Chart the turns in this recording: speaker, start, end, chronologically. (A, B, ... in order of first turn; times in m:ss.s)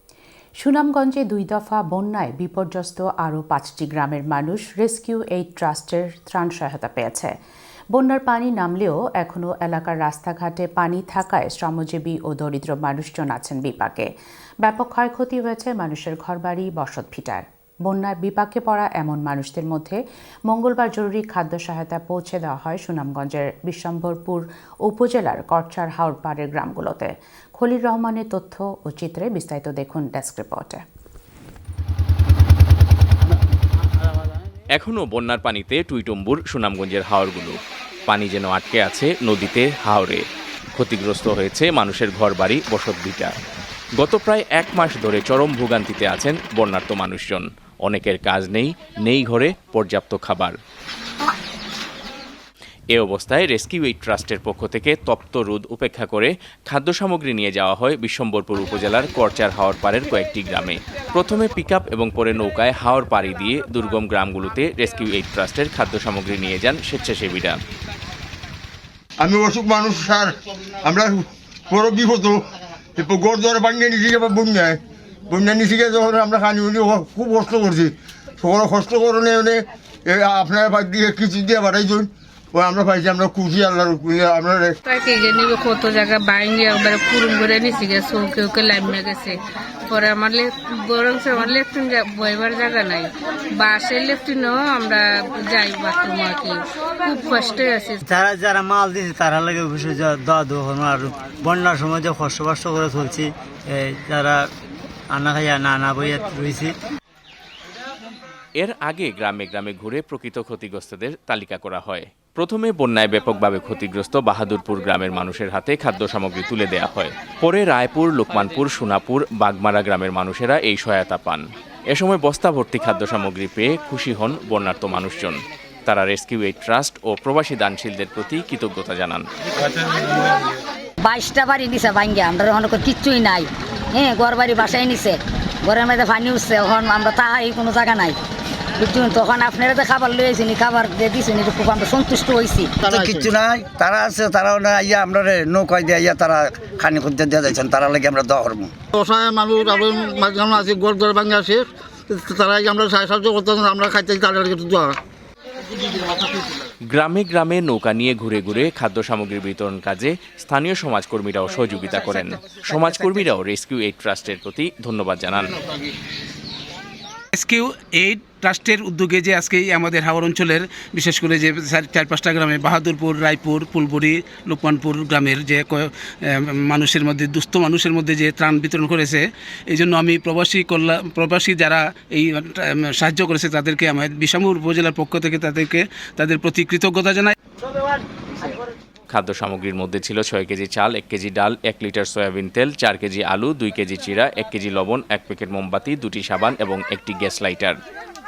0:00.6-0:07.3 A
0:07.9-0:14.1 A
0:14.6-0:30.8 A
0:34.7-0:40.2 B
0:40.8-0:43.3 B
0:44.0-0:50.5 B
0:52.9-1:07.6 B
1:09.2-1:12.4 C
1:13.0-1:14.8 C
1:15.3-1:24.8 C
1:24.8-1:38.0 D
1:38.2-1:43.3 E
1:44.0-1:44.4 E
1:45.2-1:46.7 E
1:48.6-2:09.3 B
2:11.0-2:18.2 F
2:18.8-2:22.8 F
2:22.8-2:28.7 G
2:28.9-2:35.0 H
2:36.9-2:45.6 B
2:47.3-3:07.3 I
3:09.1-3:17.8 B